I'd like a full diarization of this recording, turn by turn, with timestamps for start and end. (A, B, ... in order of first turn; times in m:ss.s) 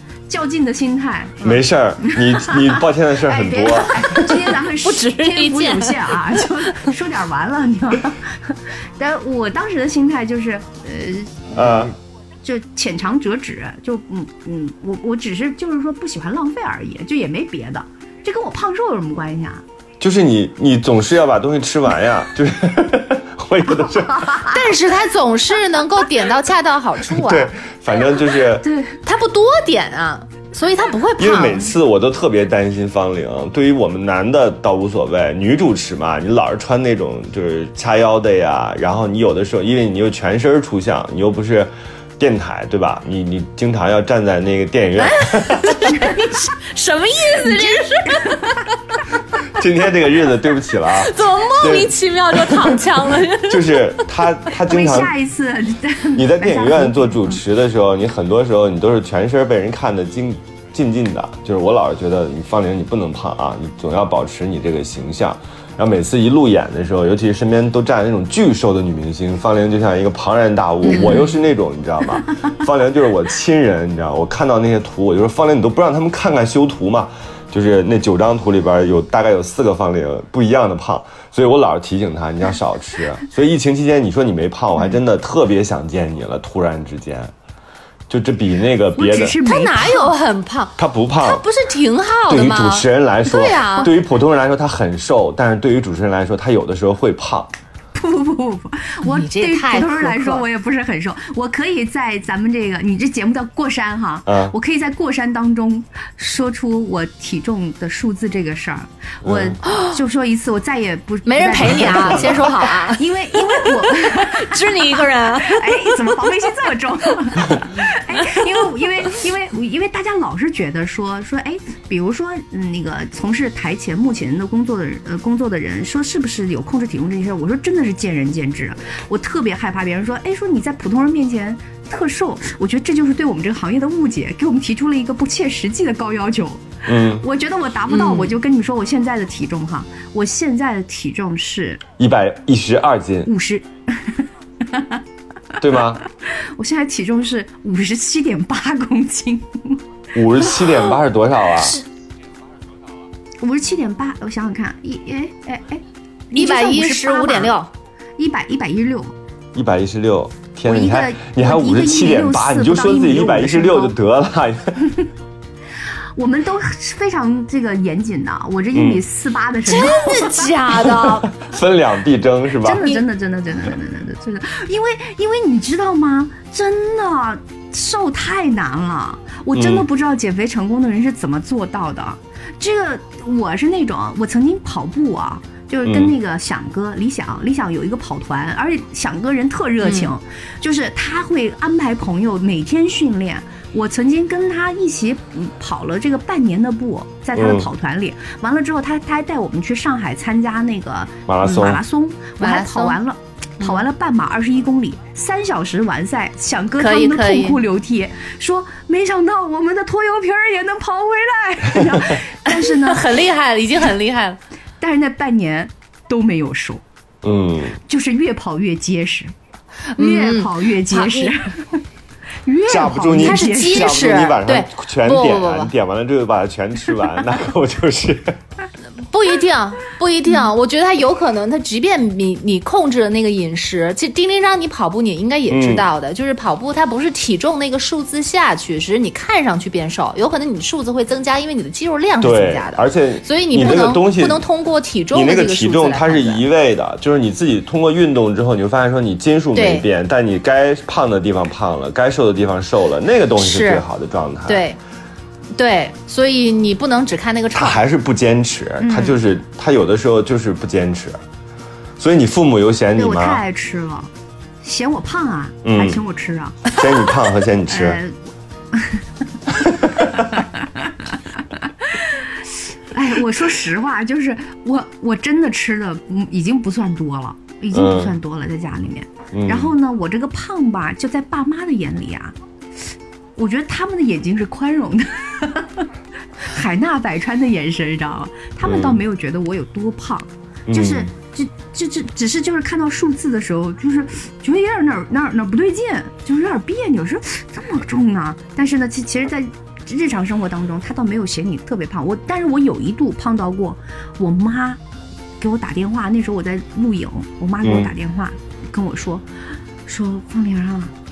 0:00.3-0:11.9 A
0:01.4-0:04.2 B
0:04.4-0:06.7 C
0:11.5-0:11.9 B
0:12.4-0:19.6 A
0:20.0-0:24.4 B
0:23.8-0:24.6 A
0:24.5-0:27.5 C
0:27.1-0:28.6 B
0:28.6-0:29.0 A
0:29.0-0:31.7 C
0:31.2-0:45.8 B
0:45.0-0:48.8 C
0:49.5-0:55.1 B
0:50.9-0:53.9 C
0:54.6-0:57.4 A
0:56.1-1:27.3 B
1:10.9-1:11.3 C
1:28.1-1:29.4 B
1:28.9-1:30.1 A
1:29.4-1:34.0 C
1:30.8-1:31.4 B
1:32.3-1:37.5 B
1:37.9-2:21.8 A
1:39.0-1:40.4 C
1:44.3-1:44.5 B
1:49.2-1:49.6 B
1:49.6-1:50.0 C
1:51.2-1:56.3 C
1:52.1-1:52.5 B
1:58.2-1:58.6 C
2:16.8-2:17.2 B
2:17.9-2:18.4 C
2:22.0-2:23.3 B
2:23.2-2:25.0 A
2:25.6-2:26.0 B
2:26.3-2:29.8 A
2:30.1-2:31.8 B
2:33.4-2:37.5 A
2:36.3-2:37.7 C
2:38.2-2:39.1 A
2:39.5-2:44.9 B
2:40.6-2:43.9 A
2:46.2-2:50.5 A
2:48.7-2:49.0 B
2:49.7-2:51.3 C
2:50.8-2:52.9 B
2:52.6-3:33.1 A
2:59.5-2:59.8 B
3:05.8-3:06.1 B
3:09.8-3:10.1 C
3:17.3-3:17.7 B
3:21.3-3:21.8 B
3:22.4-3:23.0 C
3:26.8-3:27.6 C
3:32.5-3:34.4 C
3:34.8-3:36.8 A
3:37.2-3:37.8 B
3:37.8-3:39.3 A
3:39.9-3:41.3 C
3:40.0-3:41.8 A
3:42.4-3:44.0 A
3:42.7-3:48.4 B
3:43.2-3:45.7 C
3:49.1-4:06.4 C
3:55.5-3:55.9 B
4:02.2-4:04.4 B
4:05.1-4:14.6 B
4:09.5-4:09.8 C
4:13.4-4:13.8 C
4:14.5-4:14.8 C
4:15.5-4:17.8 C
4:17.5-4:21.2 B
4:18.8-4:19.2 A
4:22.0-4:23.4 B
4:22.9-4:24.1 A
4:24.6-4:26.7 A
4:25.6-4:26.0 B
4:26.7-4:28.0 B
4:27.7-4:28.1 A
4:28.7-4:29.0 A
4:29.8-4:30.2 B
4:30.1-4:32.3 A
4:32.9-4:42.3 A
4:37.7-4:38.2 B
4:39.3-4:39.7 B
4:43.4-4:45.9 A
4:46.4-5:04.8 A
4:48.6-4:49.0 B
4:50.7-4:51.1 B
5:05.4-5:09.2 A
5:07.6-5:07.9 B
5:09.8-5:10.9 A